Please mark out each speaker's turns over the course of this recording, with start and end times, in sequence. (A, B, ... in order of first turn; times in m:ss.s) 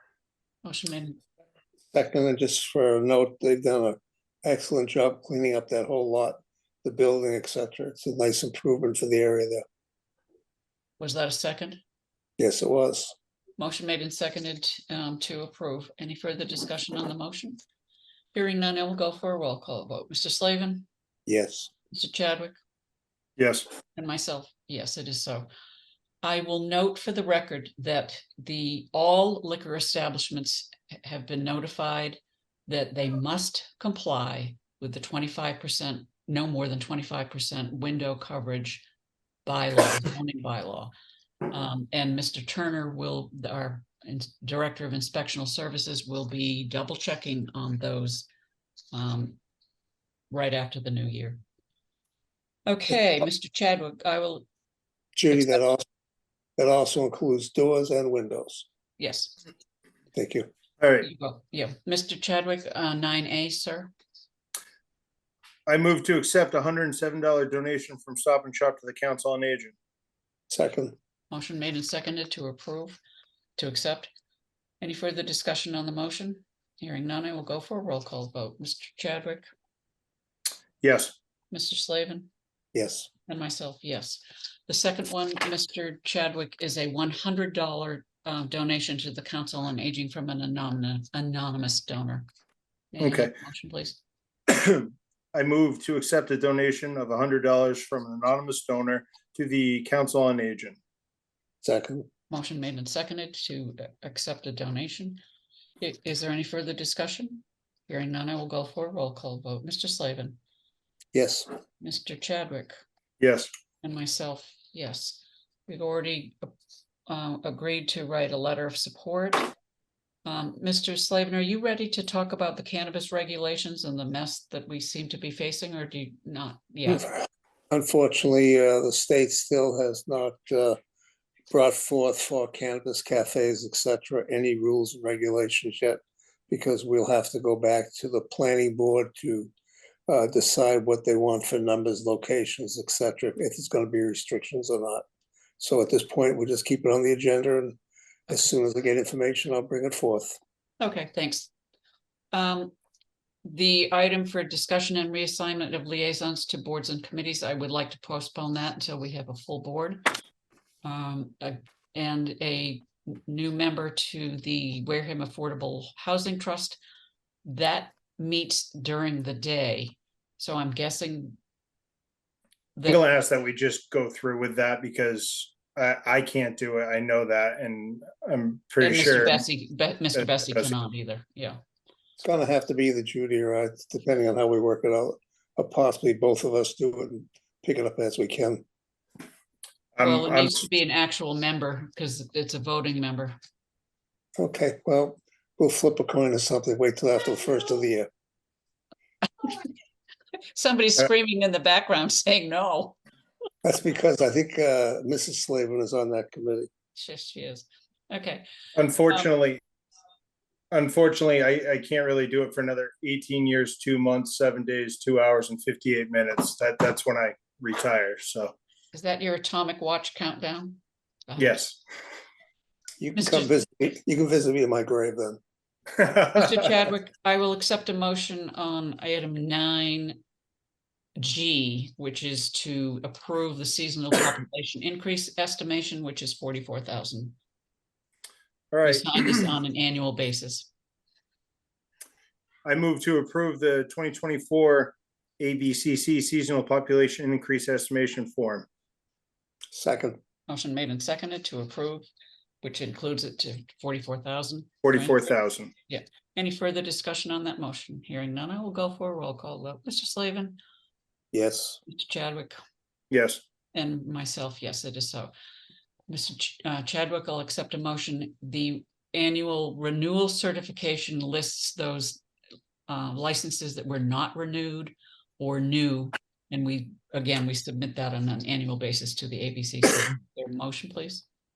0:00.6-0:01.2 A
0:01.9-0:09.6 B
0:11.0-0:11.8 A
0:12.4-0:13.2 B
0:13.6-0:17.6 A
0:18.3-0:20.9 A
0:21.3-0:21.7 B
0:21.9-0:22.6 A
0:23.4-0:23.7 C
0:24.0-0:25.5 A
0:26.2-0:38.9 A
0:39.5-0:40.9 A
0:41.5-0:48.3 A
0:48.9-0:49.4 A
0:50.3-0:51.4 A
0:52.7-0:54.5 A
0:55.2-0:55.8 B
0:55.3-0:55.6 A
0:56.6-0:58.7 B
0:59.0-0:59.4 A
1:00.1-1:00.5 B
1:00.8-1:01.1 C
1:01.0-1:03.9 A
1:05.7-1:09.8 C
1:10.5-1:11.0 B
1:11.3-1:13.0 A
1:13.6-1:14.1 A
1:14.8-1:19.5 A
1:20.8-1:21.2 C
1:21.5-1:22.3 A
1:22.7-1:23.1 B
1:23.3-1:32.3 A
1:32.9-1:34.0 A
1:33.0-1:33.3 C
1:34.5-1:40.8 C
1:41.6-1:42.1 B
1:42.3-1:45.2 A
1:45.8-1:50.4 A
1:51.1-1:51.5 B
1:51.8-1:52.8 A
1:53.2-1:53.5 C
1:53.8-1:56.5 A
1:57.1-1:59.5 A
2:00.2-2:07.0 A
2:06.9-2:10.8 B
2:11.5-2:19.5 B
2:20.1-2:25.0 B
2:25.6-2:27.8 B
2:28.3-2:30.4 B
2:30.8-2:31.5 A
2:32.3-2:32.7 A
2:33.4-2:40.1 A
2:40.8-2:46.8 A
2:47.4-2:51.4 A
2:52.9-2:59.4 C
2:58.8-3:01.6 A
3:00.2-3:00.7 C
3:02.2-3:08.6 B
3:10.0-3:10.6 C
3:10.0-3:13.4 A
3:14.4-3:18.1 B
3:19.4-3:19.7 A
3:20.5-3:23.0 A
3:23.6-3:26.7 B
3:27.0-3:28.5 A
3:28.8-3:29.6 C
3:30.7-3:38.6 C
3:38.9-3:41.6 A
3:41.4-3:41.8 C
3:43.0-3:45.4 B
3:43.2-3:43.5 A
3:46.0-3:46.4 C
3:46.3-3:50.2 A
3:51.2-3:57.4 A
3:58.7-3:59.5 C
3:58.8-4:00.7 A
4:02.6-4:08.7 C
4:09.7-4:10.2 B
4:10.5-4:12.1 A
4:12.6-4:15.2 A
4:14.8-4:15.7 C
4:15.9-4:20.6 A
4:21.3-4:21.8 B
4:21.9-4:22.6 A
4:23.1-4:23.4 C
4:23.7-4:25.3 A
4:26.1-4:32.2 A
4:32.9-4:41.2 A